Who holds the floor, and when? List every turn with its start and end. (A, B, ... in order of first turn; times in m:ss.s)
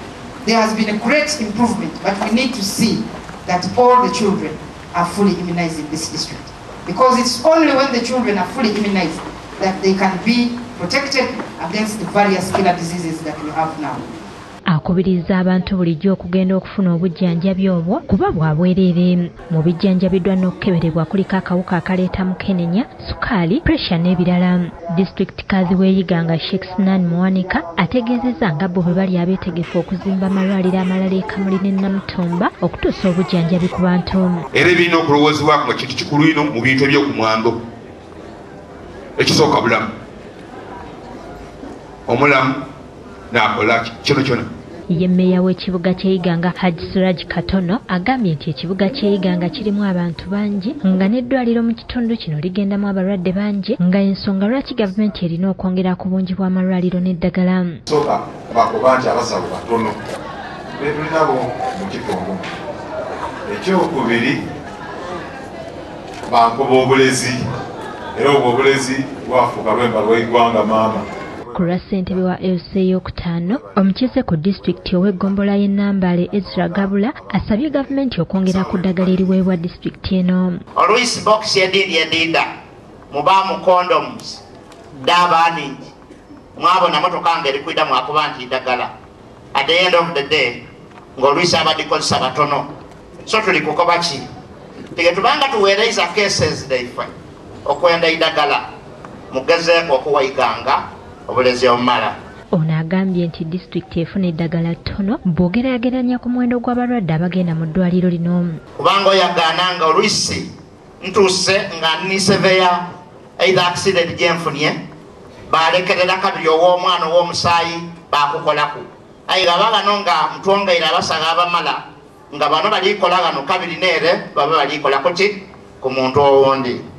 0:00.4-0:14.0 A
0:14.7-0:34.4 B
0:34.5-0:37.6 C
0:39.2-0:39.9 C
0:42.1-0:42.6 C
0:43.3-0:44.5 C
0:44.9-0:57.8 B
0:57.9-1:00.0 D
1:00.7-1:02.5 D
1:03.5-1:04.4 D
1:06.3-1:07.4 D
1:08.2-1:11.1 D
1:11.5-1:20.6 B
1:20.8-1:22.5 E
1:23.1-1:24.4 E
1:25.0-1:25.9 E
1:26.6-1:28.9 E
1:29.5-1:30.6 E
1:31.2-1:32.7 E
1:33.3-1:34.3 E
1:35.0-1:37.1 E
1:37.6-1:38.7 E
1:39.3-1:42.2 E
1:42.5-1:48.6 B
1:48.8-1:50.5 E
1:51.0-1:52.8 E
1:53.4-1:54.8 E
1:55.5-2:06.8 E